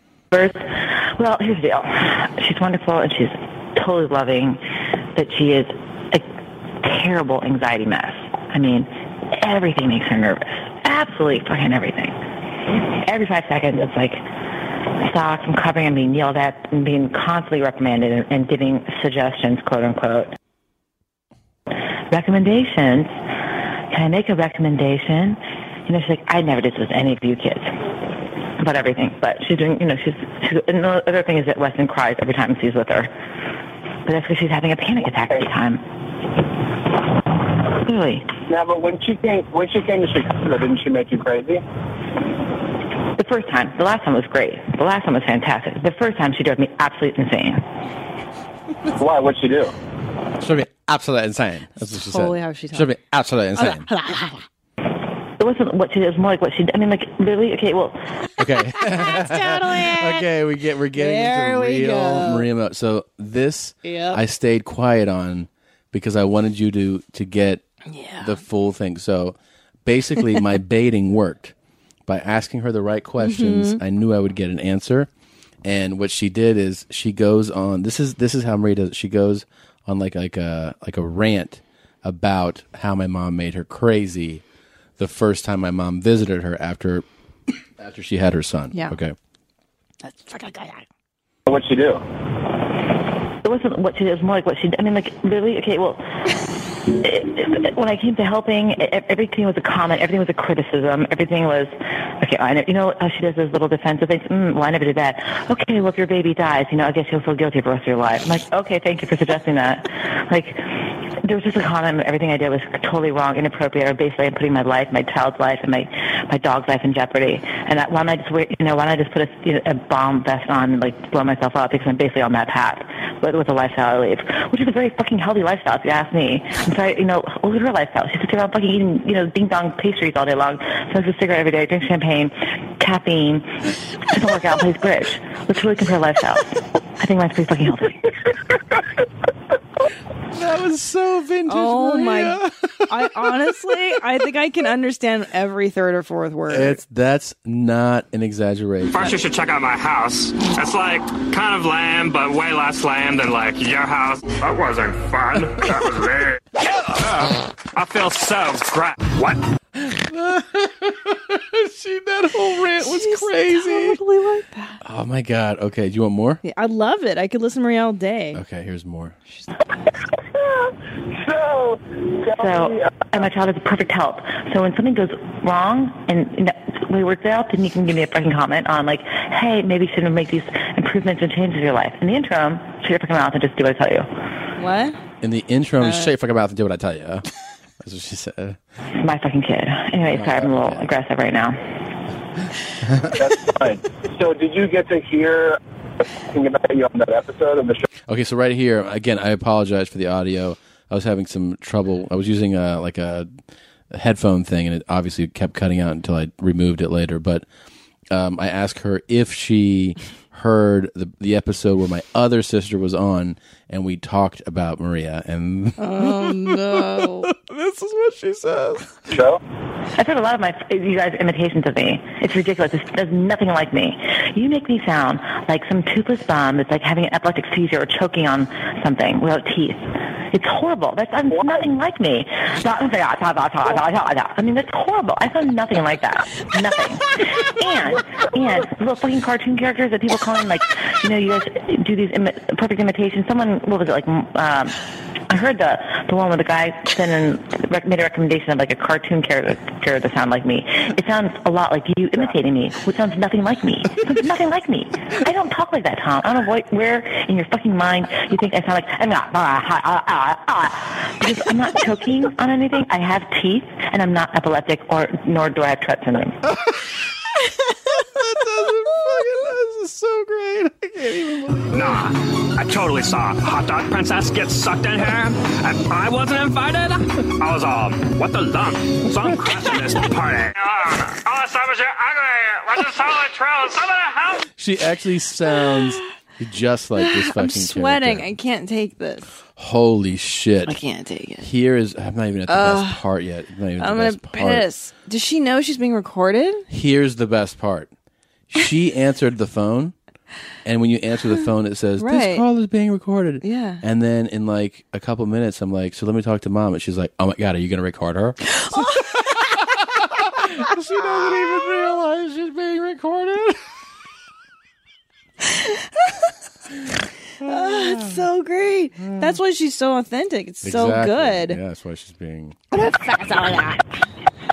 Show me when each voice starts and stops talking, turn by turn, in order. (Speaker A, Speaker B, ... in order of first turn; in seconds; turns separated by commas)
Speaker A: 0.3-4.6, Speaker A: 5.1-6.3, Speaker A: 6.8-12.2, Speaker A: 12.7-14.2, Speaker A: 14.9-20.3, Speaker A: 22.1-23.2, Speaker A: 23.9-27.7, Speaker A: 28.6-33.1, Speaker A: 34.0-35.8, Speaker A: 37.7-38.3, Speaker B: 38.5-41.6, Speaker A: 43.1-47.6, Speaker B: 49.0-49.7, Speaker C: 50.4-53.9, Speaker D: 51.9-52.9, Speaker D: 53.5-54.4, Speaker A: 55.4-58.0, Speaker C: 58.4-67.6, Speaker D: 58.8-60.2, Speaker D: 60.9-62.5, Speaker D: 63.8-64.2, Speaker D: 67.9-68.4, Speaker C: 68.2-71.5, Speaker C: 72.0-75.1, Speaker D: 73.2-73.8, Speaker C: 75.6-84.4, Speaker C: 85.0-87.0, Speaker C: 87.8-89.1, Speaker D: 90.0-90.8, Speaker B: 91.5-92.0, Speaker A: 93.4-96.0, Speaker A: 96.9-137.9, Speaker C: 140.3-144.0, Speaker D: 141.5-146.8, Speaker C: 146.5-149.2, Speaker E: 148.9-159.4, Speaker C: 159.8-164.0, Speaker D: 162.8-164.8, Speaker C: 164.8-166.4, Speaker D: 166.4-168.4, Speaker C: 168.3-169.2, Speaker D: 169.3-169.9, Speaker B: 170.3-173.2, Speaker A: 172.3-184.1, Speaker D: 184.6-185.0, Speaker C: 185.2-187.3, Speaker D: 185.8-186.1, Speaker C: 187.8-188.6, Speaker A: 189.0-191.6, Speaker C: 190.1-190.8, Speaker C: 192.8-193.1, Speaker B: 193.1-195.6, Speaker B: 196.2-197.8, Speaker C: 198.1-203.3, Speaker C: 203.9-207.4, Speaker C: 208.1-219.1, Speaker D: 215.8-217.3, Speaker B: 219.1-219.4, Speaker A: 219.9-244.8, Speaker A: 245.3-266.4, Speaker C: 266.4-267.1, Speaker C: 267.9-272.0, Speaker E: 271.7-284.5, Speaker C: 284.5-288.3, Speaker D: 286.9-289.3, Speaker C: 289.6-290.8, Speaker D: 290.6-291.5, Speaker C: 291.4-294.7, Speaker D: 292.5-293.0, Speaker D: 293.8-296.6, Speaker C: 296.7-297.9, Speaker C: 298.5-299.9, Speaker C: 300.6-313.6, Speaker D: 302.0-302.4, Speaker D: 303.4-303.8, Speaker D: 308.5-309.6, Speaker D: 315.5-316.1, Speaker D: 317.4-321.6, Speaker C: 317.4-318.2, Speaker C: 319.0-319.4, Speaker C: 320.6-322.6, Speaker D: 322.7-323.8